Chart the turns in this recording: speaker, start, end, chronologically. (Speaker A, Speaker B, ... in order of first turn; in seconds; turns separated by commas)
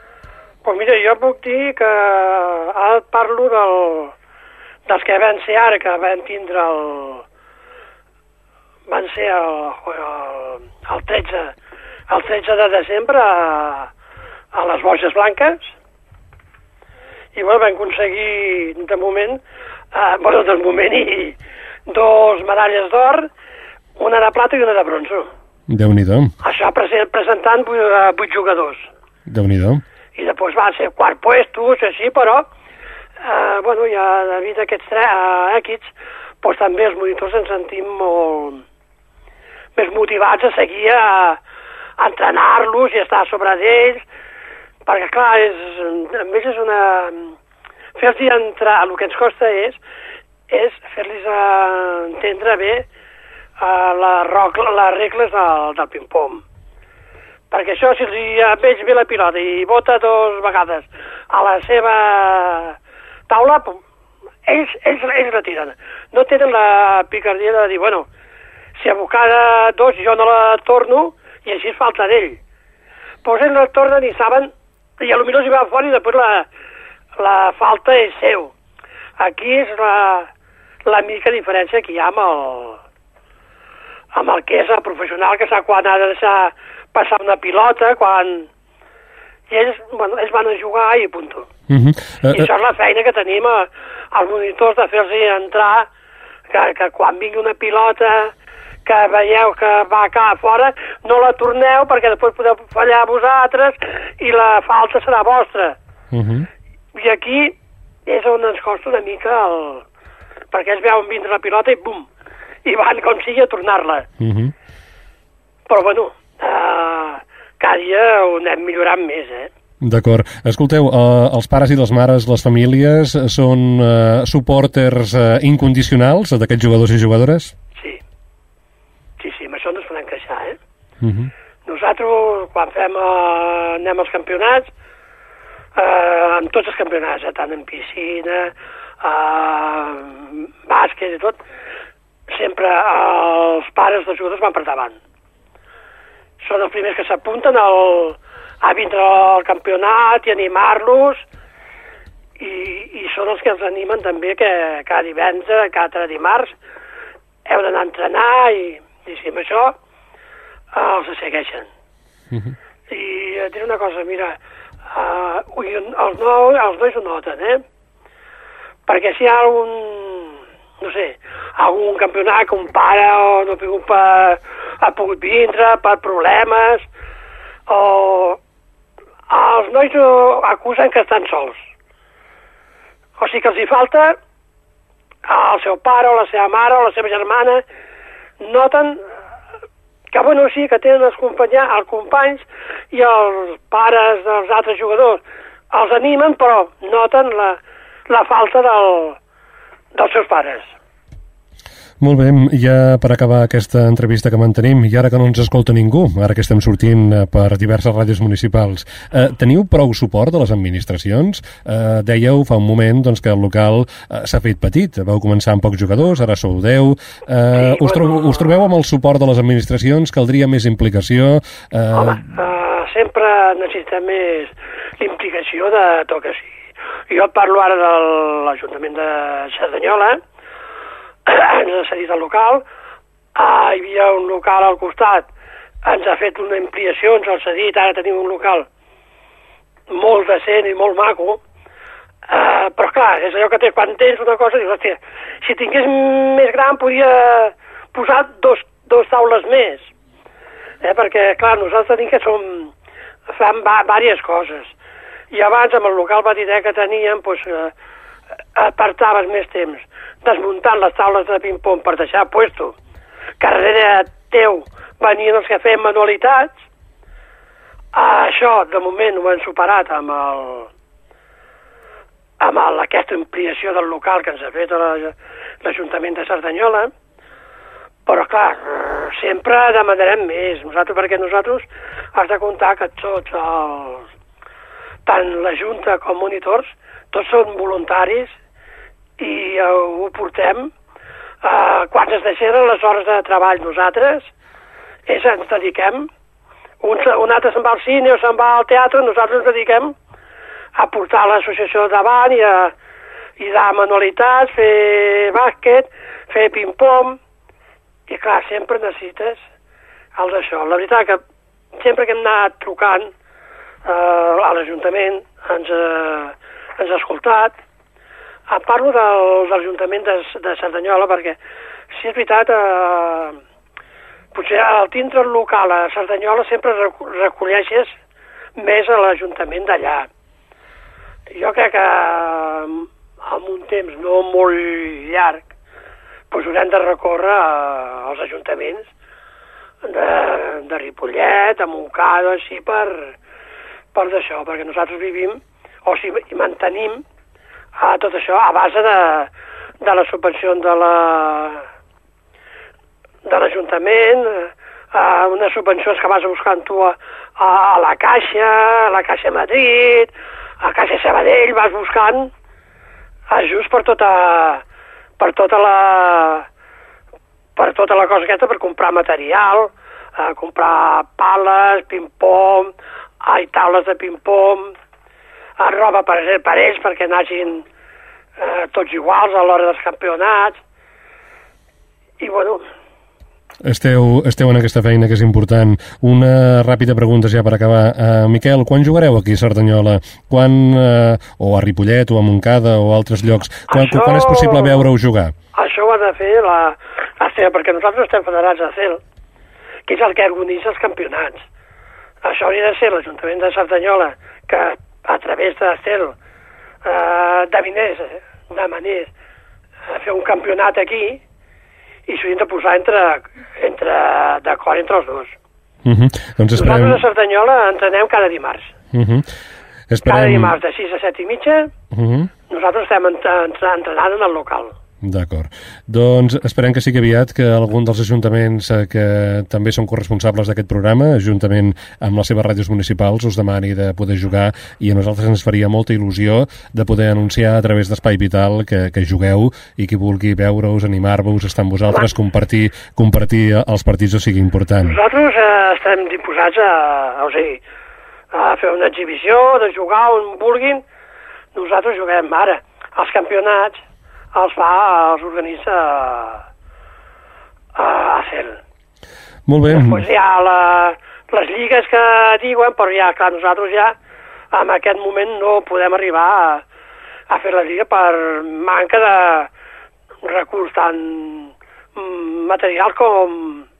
Speaker A: 0.6-4.1, Speaker A: 4.9-7.2, Speaker A: 8.9-11.5, Speaker A: 12.1-13.9, Speaker A: 14.5-15.7, Speaker A: 17.3-19.4, Speaker A: 19.9-21.4, Speaker A: 21.9-23.3, Speaker A: 24.0-25.3, Speaker B: 25.7-26.3, Speaker A: 26.4-28.9, Speaker B: 29.3-29.8, Speaker A: 30.1-32.5, Speaker A: 33.2-38.6, Speaker A: 39.8-41.4, Speaker A: 42.0-44.0, Speaker A: 44.9-47.3, Speaker A: 48.0-49.8, Speaker A: 50.5-52.8, Speaker A: 53.6-56.4, Speaker A: 57.5-62.7, Speaker A: 63.3-63.8, Speaker A: 64.5-68.1, Speaker A: 68.8-72.4, Speaker A: 73.2-76.5, Speaker A: 77.2-78.5, Speaker A: 79.2-80.3, Speaker A: 80.8-82.8, Speaker A: 84.1-88.5, Speaker A: 89.5-91.5, Speaker B: 91.7-92.5, Speaker A: 92.3-95.9, Speaker A: 96.5-98.3, Speaker A: 98.8-105.8, Speaker B: 106.1-106.5, Speaker A: 106.9-107.5, Speaker A: 108.1-109.8, Speaker A: 110.5-112.1, Speaker A: 112.6-114.0, Speaker B: 114.2-114.5, Speaker A: 115.7-119.5, Speaker B: 119.8-127.5, Speaker A: 129.2-130.6, Speaker B: 131.0-131.3, Speaker A: 131.7-134.7, Speaker A: 135.8-141.4, Speaker A: 142.3-144.9, Speaker A: 146.4-151.2, Speaker A: 152.4-156.5, Speaker A: 157.5-159.7, Speaker A: 160.7-161.7, Speaker A: 162.9-164.4, Speaker A: 164.9-167.6, Speaker A: 168.9-176.8, Speaker A: 177.7-178.4, Speaker A: 179.3-181.6, Speaker A: 183.2-184.2, Speaker A: 185.3-187.6, Speaker A: 188.4-189.0, Speaker A: 190.1-199.2, Speaker A: 199.9-200.7, Speaker B: 202.0-222.2, Speaker A: 217.6-218.4, Speaker A: 221.9-226.5, Speaker A: 227.1-230.2, Speaker A: 231.2-232.6, Speaker A: 233.3-235.3, Speaker A: 235.8-238.7, Speaker A: 239.9-241.4, Speaker A: 242.3-249.9, Speaker A: 250.8-252.7, Speaker A: 253.3-254.7, Speaker A: 255.3-257.7, Speaker A: 258.6-262.7, Speaker A: 263.4-266.6, Speaker A: 267.9-270.7, Speaker A: 272.4-276.9, Speaker A: 278.1-284.0, Speaker A: 285.1-288.3, Speaker A: 289.2-290.7, Speaker A: 291.4-294.3, Speaker A: 295.1-296.1, Speaker A: 296.8-299.9, Speaker A: 300.8-302.7, Speaker A: 303.4-307.2, Speaker A: 308.1-309.4, Speaker A: 310.1-311.2, Speaker A: 311.8-313.1, Speaker A: 313.9-317.5, Speaker A: 318.5-321.4, Speaker A: 321.9-323.4, Speaker A: 324.3-327.9, Speaker A: 328.6-330.1, Speaker A: 331.3-335.4, Speaker A: 336.3-338.9, Speaker A: 339.8-343.1, Speaker A: 343.9-347.0, Speaker A: 347.8-349.3, Speaker A: 349.8-351.6, Speaker A: 353.2-360.1, Speaker A: 360.6-362.3, Speaker A: 363.3-364.6, Speaker A: 365.2-366.4, Speaker A: 367.6-372.7, Speaker A: 373.2-374.7, Speaker A: 375.6-377.6, Speaker A: 378.4-380.6, Speaker A: 382.2-382.6, Speaker B: 383.6-395.3, Speaker A: 393.7-394.9, Speaker A: 395.5-399.0, Speaker A: 399.9-401.4, Speaker A: 402.2-406.1, Speaker A: 406.8-409.1, Speaker A: 409.9-411.2, Speaker A: 412.1-415.3, Speaker B: 415.8-417.0, Speaker A: 416.6-418.7, Speaker B: 418.9-419.2, Speaker B: 419.9-420.6, Speaker A: 420.0-421.7, Speaker B: 421.9-422.3, Speaker A: 422.5-424.7, Speaker B: 425.0-445.0, Speaker A: 444.9-447.6, Speaker A: 448.3-450.8, Speaker A: 451.5-453.8, Speaker A: 454.3-456.4, Speaker A: 457.8-458.6, Speaker B: 459.5-460.0, Speaker A: 459.7-463.9, Speaker A: 464.5-466.6, Speaker A: 467.3-469.5, Speaker A: 470.2-473.6